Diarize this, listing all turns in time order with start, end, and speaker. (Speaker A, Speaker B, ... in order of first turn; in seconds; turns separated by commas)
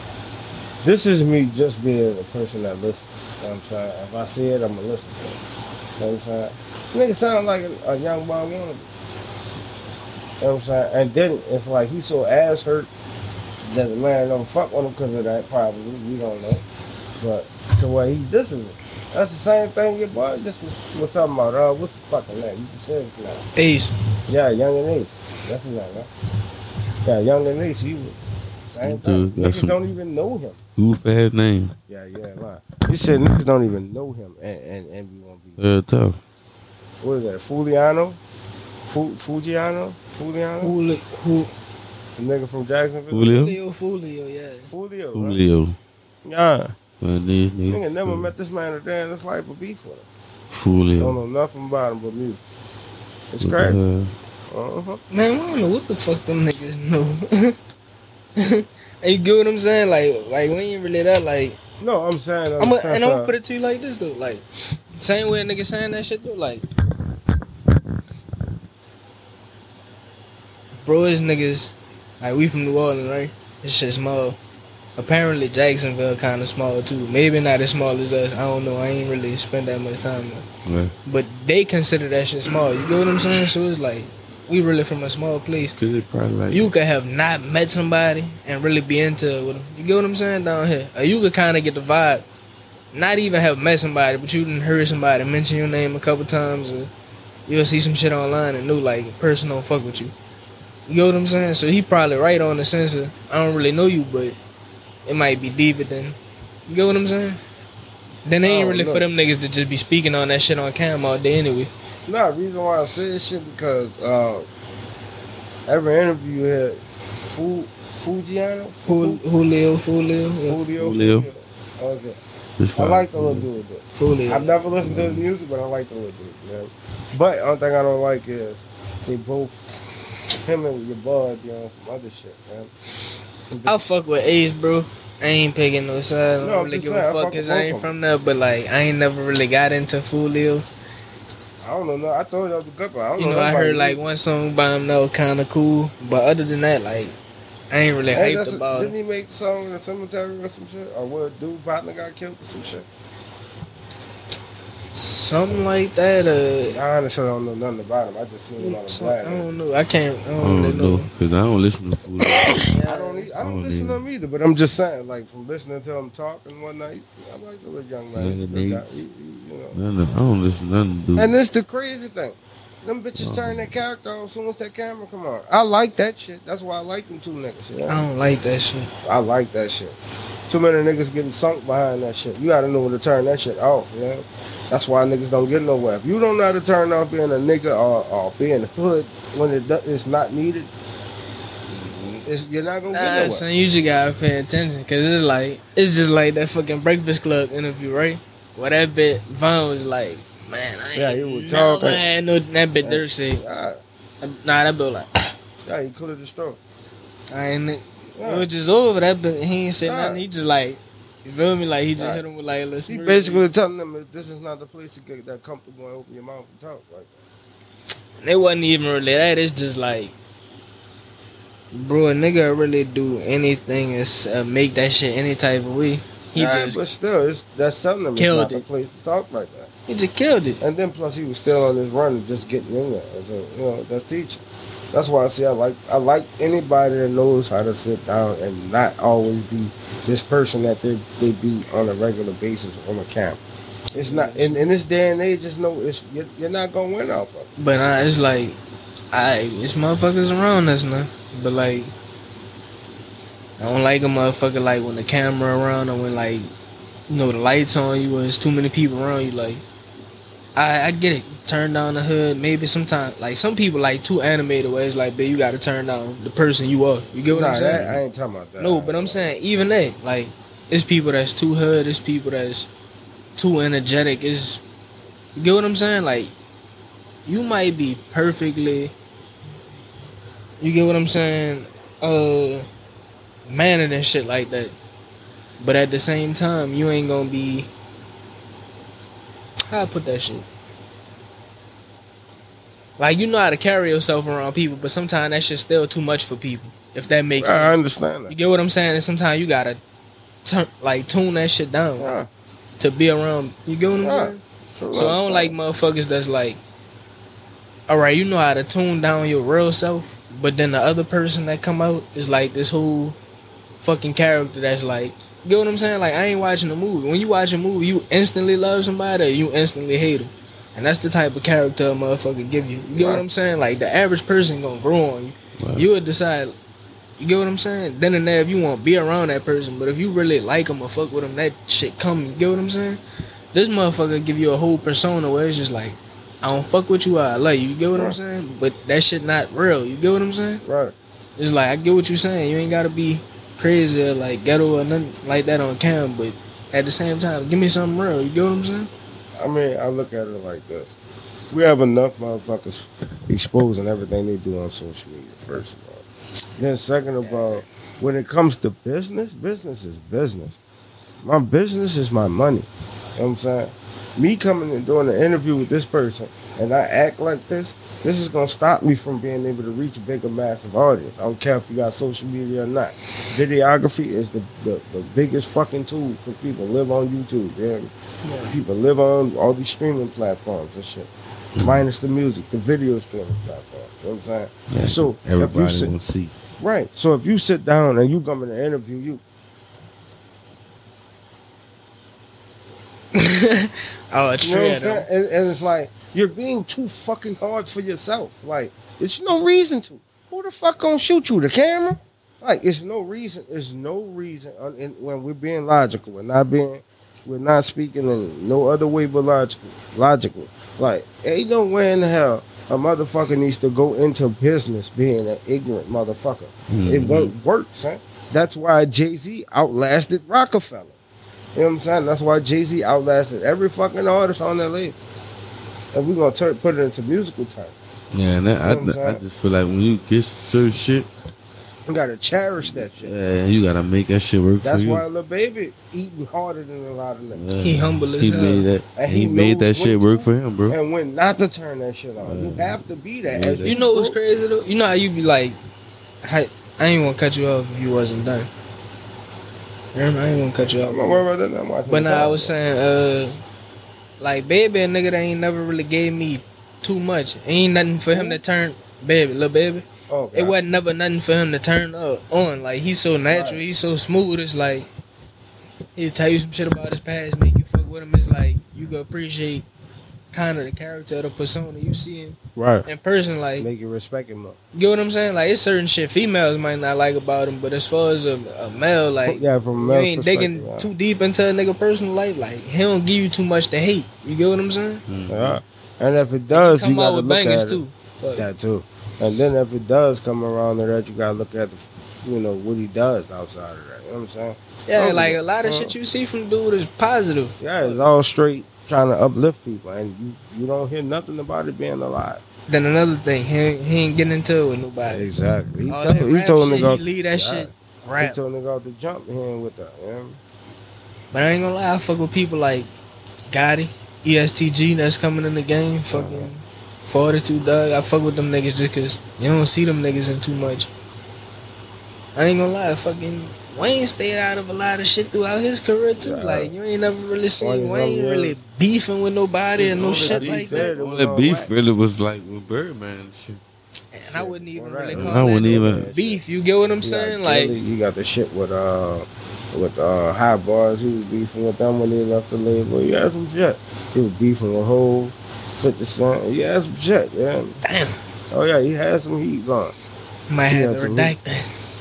Speaker A: 0.8-5.4, Speaker A: 6.0-8.9, Speaker A: 10.4-12.9, Speaker A: 13.7-16.6, Speaker A: 17.2-23.4, Speaker B: 23.6-23.9, Speaker A: 24.3-26.1, Speaker A: 27.0-28.2, Speaker A: 28.7-30.6, Speaker C: 28.8-29.8, Speaker C: 30.8-31.7, Speaker A: 31.9-35.6, Speaker C: 35.6-36.2, Speaker A: 37.0-38.2, Speaker A: 38.8-40.7, Speaker B: 40.6-41.5, Speaker A: 42.2-43.3, Speaker C: 43.1-43.6, Speaker B: 43.3-44.7, Speaker A: 44.7-45.4, Speaker C: 45.1-45.8, Speaker A: 46.2-46.7, Speaker C: 47.0-48.3, Speaker A: 47.7-50.0, Speaker C: 50.5-51.2, Speaker A: 51.0-52.4, Speaker A: 53.3-53.8, Speaker C: 53.4-54.1, Speaker A: 54.5-55.0, Speaker B: 55.1-57.5, Speaker B: 58.4-61.6, Speaker A: 61.8-63.3, Speaker B: 62.6-64.4, Speaker B: 65.0-66.6, Speaker B: 70.8-74.4, Speaker B: 75.0-80.5, Speaker C: 80.7-80.9, Speaker B: 81.0-85.8, Speaker C: 85.8-86.7, Speaker B: 86.5-92.2, Speaker B: 92.9-96.9, Speaker B: 97.5-100.1, Speaker B: 100.9-104.4, Speaker B: 105.0-107.4, Speaker B: 108.2-111.7, Speaker A: 108.4-109.1, Speaker A: 112.1-114.5, Speaker A: 115.7-119.2, Speaker B: 118.8-120.7, Speaker A: 120.5-122.2, Speaker C: 120.8-121.3, Speaker C: 122.6-123.5, Speaker A: 122.8-129.6, Speaker B: 123.9-124.5, Speaker C: 124.8-125.2, Speaker A: 130.4-132.7, Speaker A: 133.5-133.9, Speaker B: 133.7-140.6, Speaker A: 136.4-137.9, Speaker A: 141.6-144.0, Speaker B: 143.2-147.1, Speaker B: 147.7-148.9, Speaker A: 148.1-152.9, Speaker B: 154.9-156.8, Speaker A: 156.7-159.5, Speaker B: 158.6-161.1, Speaker C: 160.4-162.6, Speaker B: 162.6-163.3, Speaker A: 162.8-169.8, Speaker C: 163.4-164.0, Speaker C: 168.2-169.0, Speaker C: 169.7-171.3, Speaker A: 171.2-178.0, Speaker C: 173.2-173.7, Speaker B: 177.9-178.9, Speaker A: 179.0-180.0, Speaker A: 180.5-190.7, Speaker C: 191.7-192.3, Speaker A: 192.2-193.4, Speaker B: 192.9-203.4, Speaker A: 200.9-202.0, Speaker A: 202.8-203.8, Speaker B: 204.2-205.3, Speaker A: 205.6-206.6, Speaker B: 207.3-213.4, Speaker A: 208.2-208.5, Speaker A: 209.8-210.2, Speaker A: 212.9-217.2, Speaker B: 218.2-220.1, Speaker B: 221.7-226.8, Speaker A: 226.3-229.7, Speaker B: 228.2-228.6, Speaker B: 229.9-230.6, Speaker A: 230.6-243.4, Speaker A: 243.9-247.5, Speaker B: 243.9-244.6, Speaker B: 247.6-248.6, Speaker B: 249.1-251.9, Speaker B: 253.6-256.5, Speaker B: 257.1-259.6, Speaker B: 260.6-267.8, Speaker A: 267.3-269.3, Speaker C: 267.7-268.0, Speaker B: 268.6-272.7, Speaker B: 273.4-274.6, Speaker B: 275.4-276.3, Speaker B: 277.2-278.9, Speaker B: 280.6-282.6, Speaker B: 283.5-284.7, Speaker B: 285.6-287.7, Speaker B: 289.7-290.4, Speaker B: 293.0-299.8, Speaker A: 297.4-298.3, Speaker B: 300.4-302.1, Speaker A: 302.0-302.3, Speaker B: 302.8-304.4, Speaker A: 304.0-305.5, Speaker B: 304.9-306.6, Speaker B: 307.9-313.2, Speaker B: 313.8-326.5, Speaker A: 322.9-323.2, Speaker C: 325.6-325.9, Speaker B: 327.2-333.0, Speaker B: 333.5-340.6, Speaker A: 340.6-340.9, Speaker B: 341.4-348.9, Speaker A: 349.4-350.9, Speaker A: 351.5-356.0, Speaker A: 356.6-360.6, Speaker B: 357.2-357.6, Speaker A: 361.2-377.9, Speaker B: 378.2-378.5, Speaker A: 378.4-381.1, Speaker C: 381.6-381.8, Speaker A: 381.6-385.9, Speaker C: 384.7-386.3, Speaker A: 386.6-389.2, Speaker B: 393.1-395.1, Speaker A: 394.4-420.9, Speaker C: 416.7-417.4, Speaker A: 421.5-424.9, Speaker A: 425.9-427.7, Speaker C: 428.1-431.1, Speaker A: 428.6-429.2, Speaker A: 431.9-433.1, Speaker C: 432.6-435.0, Speaker A: 434.6-437.4, Speaker C: 437.3-440.8, Speaker B: 437.6-438.6, Speaker A: 438.9-444.2, Speaker C: 442.2-443.8, Speaker B: 443.6-445.6, Speaker B: 446.2-448.5, Speaker B: 449.9-451.2, Speaker A: 450.8-452.5, Speaker B: 451.9-453.4, Speaker B: 454.2-464.9, Speaker A: 458.1-458.4, Speaker A: 460.1-460.6, Speaker A: 463.3-463.6, Speaker B: 465.9-469.7, Speaker B: 470.3-473.7, Speaker A: 472.6-472.9, Speaker A: 473.6-474.6, Speaker B: 474.7-485.0, Speaker A: 479.2-480.9, Speaker C: 485.1-485.6, Speaker A: 485.3-487.8, Speaker B: 486.5-488.4, Speaker A: 488.4-495.9, Speaker B: 494.9-498.0, Speaker A: 497.6-502.4, Speaker B: 502.7-505.3, Speaker A: 505.0-510.4, Speaker B: 505.9-508.4, Speaker B: 511.3-512.9, Speaker B: 513.5-520.9, Speaker A: 516.1-516.5, Speaker B: 522.4-530.9, Speaker A: 526.2-526.7, Speaker A: 527.6-528.6, Speaker C: 529.8-533.6, Speaker A: 530.2-531.7, Speaker B: 534.1-537.7, Speaker A: 534.3-536.4, Speaker C: 535.1-536.1, Speaker A: 537.0-547.7, Speaker B: 547.8-548.2, Speaker A: 548.5-549.9, Speaker B: 550.5-551.7, Speaker A: 550.7-551.3